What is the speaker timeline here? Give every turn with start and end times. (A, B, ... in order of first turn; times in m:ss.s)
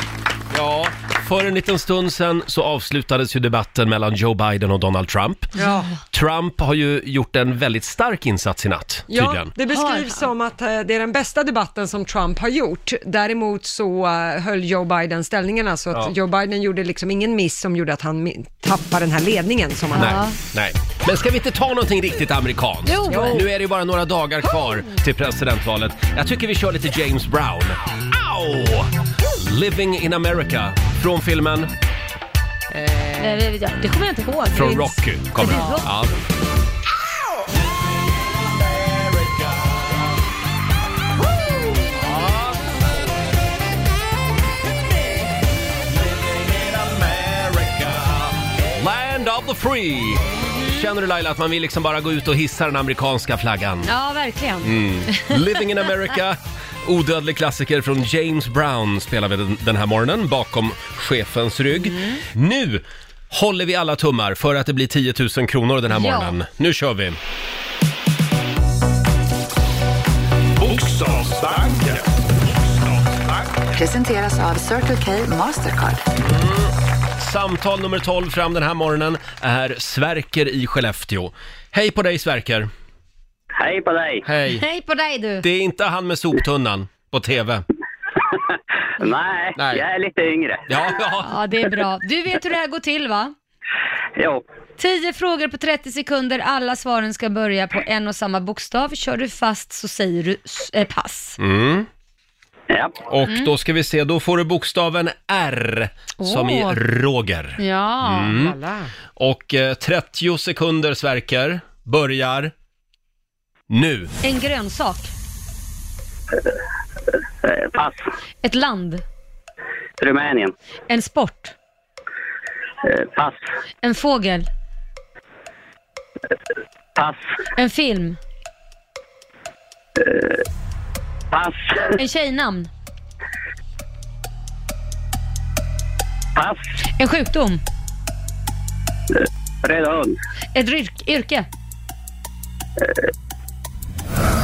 0:00.5-0:05.5 A
0:05.6-0:05.9 B
0:05.6-0:05.9 C
0:06.1-0:09.5 A
0:09.1-0:20.2 B
0:09.7-0:10.3 C
0:19.9-0:31.7 A
0:20.0-0:20.4 C
0:22.8-0:23.5 C
0:23.1-0:23.4 B
0:33.2-0:35.9 C
0:34.5-0:36.2 A
0:42.0-0:42.6 A
0:46.6-0:48.1 D
0:48.7-0:53.9 A
0:53.8-0:55.6 C
0:54.6-1:07.2 A
1:01.8-1:02.2 C
1:05.9-1:06.4 C
1:10.6-1:13.6 D
1:13.7-1:16.0 E
1:16.2-1:22.7 A
1:23.6-1:24.2 F
1:24.2-1:24.6 A
1:24.4-1:25.4 C
1:25.4-1:27.6 A
1:29.0-1:30.6 F
1:29.6-1:29.8 A
1:30.7-1:31.3 A
1:31.2-1:33.3 C
1:34.8-1:41.4 C
1:41.4-1:41.9 A
1:42.7-1:43.0 F
1:43.1-1:48.5 A
1:43.2-1:43.5 C
1:46.2-1:46.8 C
1:47.6-1:48.3 C
1:48.3-1:48.9 B
1:49.2-1:52.5 A
1:53.7-1:54.1 A
1:54.2-1:55.1 C
1:57.4-1:58.0 F
1:58.4-1:59.0 C
2:00.0-2:00.5 F
2:00.9-2:01.5 C
2:02.9-2:03.4 F
2:03.8-2:04.5 C
2:07.6-2:08.2 C
2:10.0-2:10.4 F
2:11.3-2:11.9 F
2:12.0-2:12.7 C
2:16.4-2:16.7 F
2:17.0-2:17.6 C
2:19.6-2:20.1 F
2:20.5-2:21.5 C